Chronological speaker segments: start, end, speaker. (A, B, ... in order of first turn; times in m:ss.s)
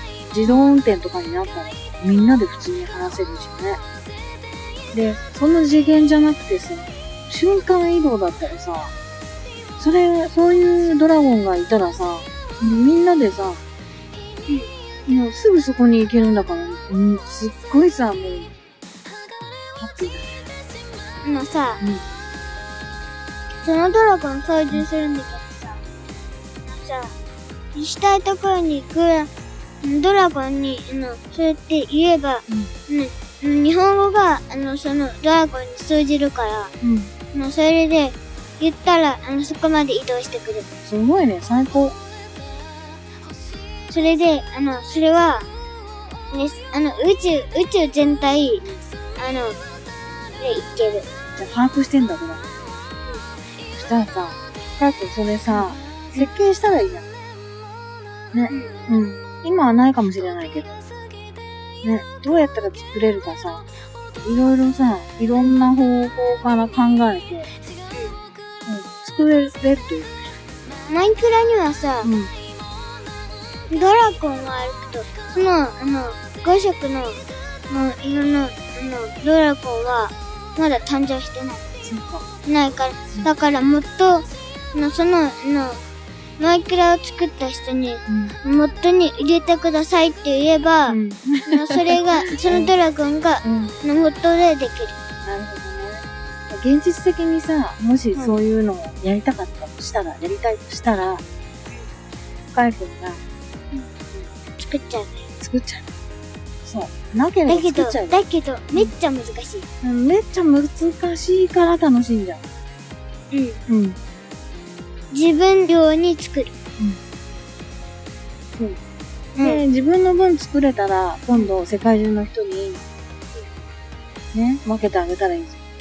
0:00.3-0:03.8 A
0:04.9-0:08.9 A
0:09.8-0:13.6 A
0:15.1-0:18.5 A
0:19.8-0:20.4 A
0:21.2-0:21.8 B
0:23.6-0:25.8 B
0:26.6-0:27.1 B
0:27.7-0:29.3 B
0:29.8-0:36.7 B
0:36.8-0:37.1 A
0:37.3-0:40.7 B
0:40.8-0:42.0 A
0:43.9-0:45.5 B
0:46.3-0:48.6 B
0:49.2-0:49.6 B
0:50.4-0:51.1 B
0:51.3-0:52.4 A
0:53.7-0:57.1 A
0:58.3-1:00.8 A
1:01.8-1:03.6 A
1:04.2-1:07.5 A
1:07.9-1:08.2 B
1:08.6-1:10.3 A
1:10.8-1:12.1 B
1:12.0-1:12.3 A
1:13.7-1:21.6 B
1:21.8-1:22.2 A
1:22.4-1:25.8 B
1:26.4-1:35.0 B
1:28.1-1:28.4 A
1:30.9-1:32.7 A
1:33.4-1:33.7 A
1:35.2-1:41.2 A
1:42.5-1:43.2 A
1:44.6-1:45.2 B
1:45.4-1:45.9 A
1:46.6-1:48.2 A
1:47.5-1:49.7 B
1:49.8-1:52.4 A
1:53.3-1:53.6 B
1:53.7-1:54.0 A
1:55.1-1:56.5 B
1:59.4-1:59.6 B
1:59.4-2:02.8 A
2:04.3-2:05.6 A